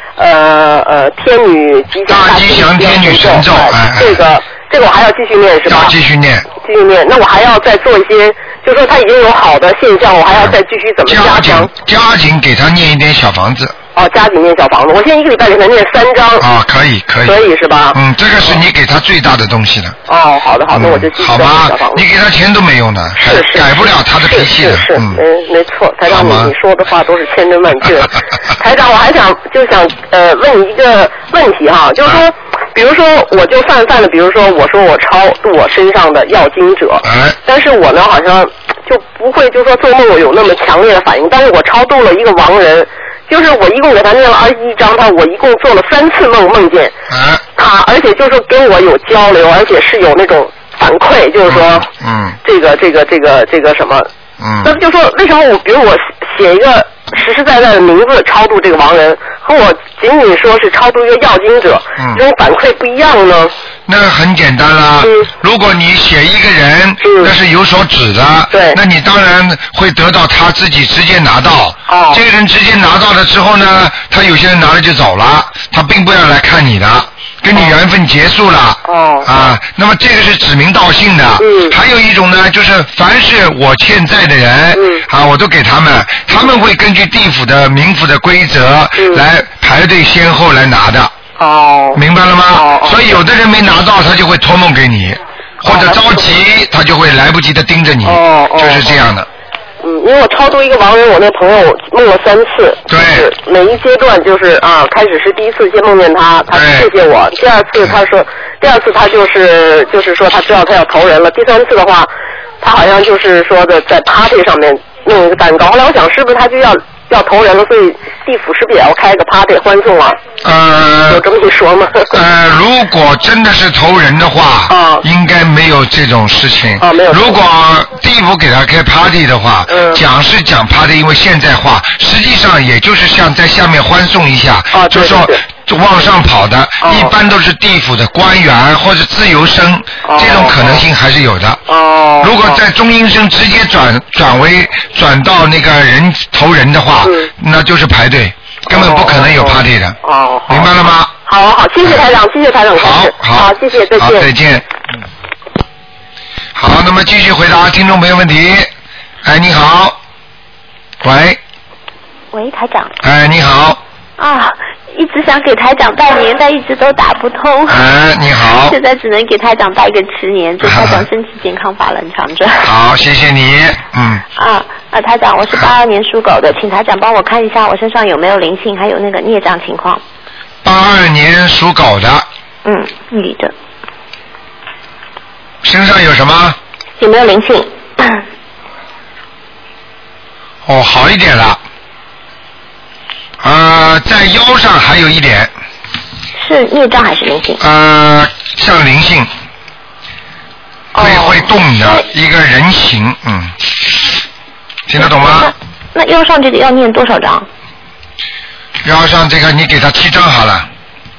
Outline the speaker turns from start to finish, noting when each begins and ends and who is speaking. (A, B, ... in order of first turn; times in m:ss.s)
0:00.2-0:05.9 A
0:02.1-0:04.2 B
0:05.6-0:06.5 B
0:06.6-0:11.7 A
0:11.0-0:13.8 B
0:13.9-0:16.4 A
0:16.4-0:17.4 B
0:17.2-0:18.0 A
0:17.9-0:20.0 B
0:20.1-0:22.0 A
0:20.7-0:25.2 B
0:23.2-0:46.9 A
0:26.1-0:26.5 B
0:37.0-0:37.4 B
0:47.1-0:47.4 B
0:47.6-0:51.9 A
0:51.5-0:52.4 B
0:52.4-0:54.1 A
0:54.4-0:54.8 B
0:54.6-1:03.5 A
1:02.0-1:02.2 B
1:03.9-1:31.1 B
1:05.0-1:05.3 A
1:07.0-1:07.3 A
1:08.5-1:08.8 A
1:11.9-1:12.2 A
1:17.5-1:17.8 A
1:18.9-1:19.5 A
1:21.4-1:21.8 A
1:24.7-1:25.0 A
1:29.0-1:29.2 A
1:31.4-1:32.0 A
1:31.9-1:39.3 B
1:32.5-1:33.1 A
1:35.6-1:36.3 A
1:38.0-1:39.0 A
1:39.8-1:52.1 A
1:42.9-1:43.3 B
1:46.5-1:46.9 B
1:52.6-2:00.2 A
2:00.4-2:01.2 B
2:01.1-2:02.1 A
2:02.1-2:21.6 B
2:04.7-2:05.0 A
2:06.8-2:07.4 A
2:09.7-2:10.0 A
2:14.7-2:15.4 A
2:16.8-2:17.1 A
2:20.0-2:20.8 A
2:21.7-2:22.6 A
2:22.2-2:30.0 B
2:27.0-2:27.3 A
2:28.7-2:30.7 A
2:30.5-2:31.1 B
2:31.3-2:34.3 A
2:32.7-2:34.6 B
2:36.5-2:38.7 B
2:39.2-2:40.0 B
2:41.0-2:41.4 B
2:42.3-2:42.9 C
2:43.0-2:43.8 B
2:44.2-2:47.8 C
2:47.7-2:48.8 B
2:48.6-2:52.7 C
2:50.6-2:51.0 B
2:52.6-2:54.2 B
2:54.4-3:00.0 C
3:00.6-3:02.2 B
3:02.6-3:03.5 C
3:05.6-3:06.6 B
3:07.0-3:08.2 C
3:10.6-3:11.6 B
3:13.4-3:15.5 B
3:16.4-3:17.6 C
3:17.6-3:19.3 B
3:20.9-3:22.0 C
3:21.0-3:23.6 B
3:24.9-3:25.5 B
3:25.0-3:27.5 C
3:28.8-3:30.7 B